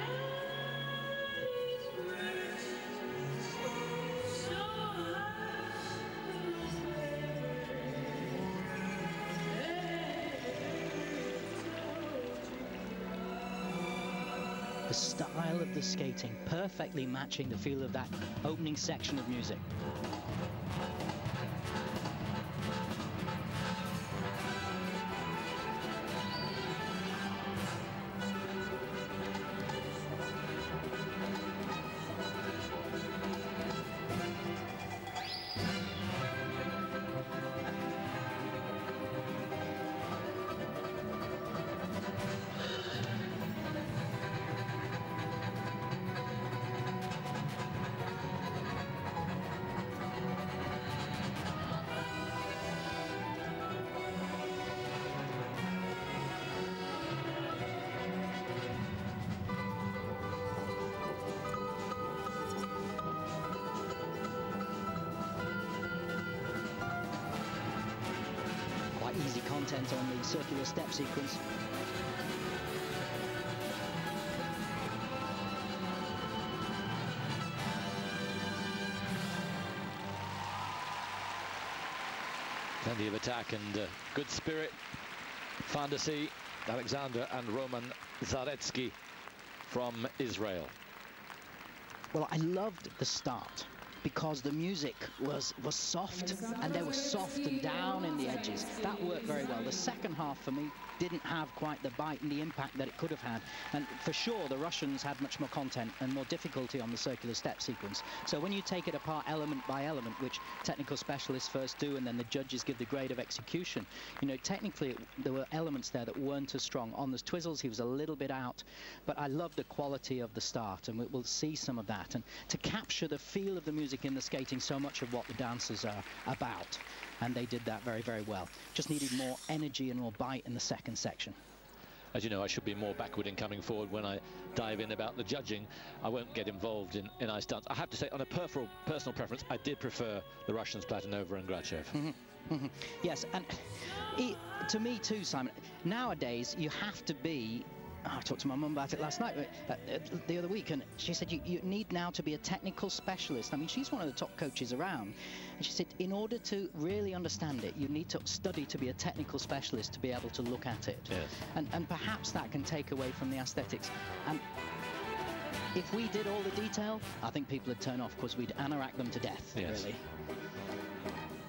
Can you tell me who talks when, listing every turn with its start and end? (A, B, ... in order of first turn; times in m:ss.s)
0:14.9-0:19.6 A
1:09.0-1:11.4 A
1:22.8-1:24.8 B
1:25.6-1:29.0 B
1:29.7-1:30.8 B
1:32.1-2:11.4 A
2:12.1-2:22.0 B
2:21.9-2:44.4 A
2:41.1-2:41.4 B
2:45.8-2:50.0 A
2:49.6-2:49.9 B